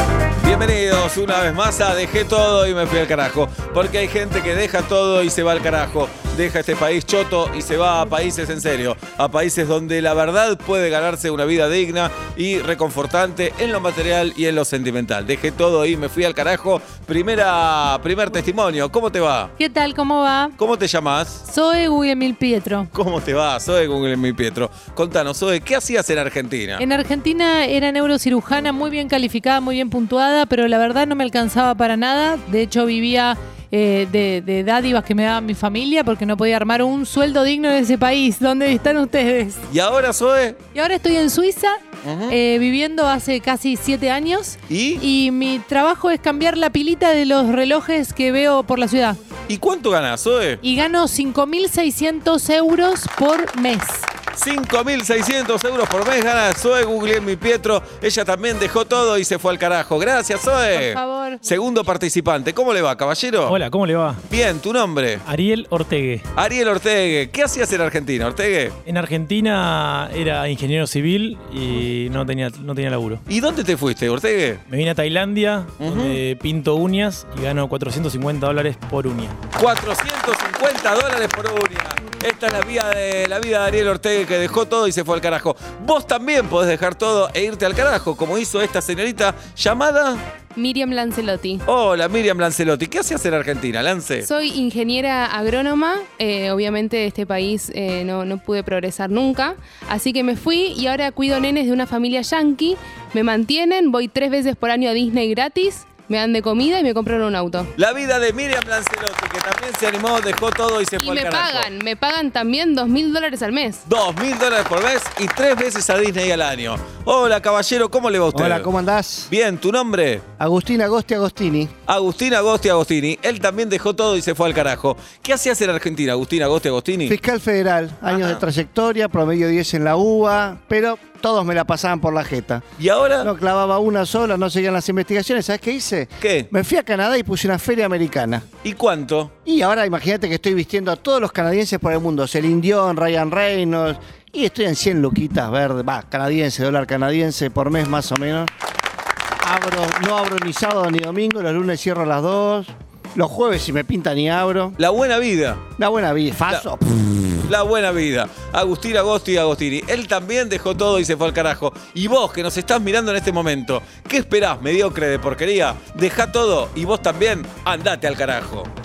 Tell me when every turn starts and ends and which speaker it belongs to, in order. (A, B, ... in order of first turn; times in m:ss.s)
0:00.4-0:19.5 A
0:19.6-0:20.5 B
0:20.6-0:21.4 A
0:21.5-0:22.9 B
0:22.9-0:26.8 A
0:26.8-0:39.6 B
0:39.7-0:40.6 A
0:40.7-0:49.2 B
0:42.0-0:42.4 A
0:44.7-0:45.0 A
0:49.5-0:50.6 A
0:50.6-0:54.1 B
0:54.4-1:03.6 A
1:00.7-1:01.7 B
1:03.4-1:04.2 C
1:04.3-1:05.2 A
1:05.2-1:06.3 C
1:06.4-1:08.8 A
1:08.8-1:13.2 C
1:13.3-1:14.6 A
1:14.7-1:19.4 C
1:15.8-1:16.2 A
1:19.5-1:30.2 A
1:30.5-1:31.6 D
1:31.6-1:34.3 A
1:34.2-1:47.7 D
1:47.8-1:51.7 A
1:51.0-1:53.8 D
1:53.8-1:58.7 A
1:58.3-1:59.3 E
1:59.3-2:00.2 A
2:00.4-2:01.7 E
2:01.8-2:07.2 A
2:07.0-2:12.6 E
2:08.1-2:08.4 A
2:12.8-2:13.3 A
2:13.2-2:18.4 E
2:16.2-2:16.5 A
2:18.6-2:19.3 A
2:19.4-2:28.5 E
2:29.4-2:34.8 E
2:34.8-2:35.6 A
2:35.8-2:37.1 E
2:37.4-2:48.7 A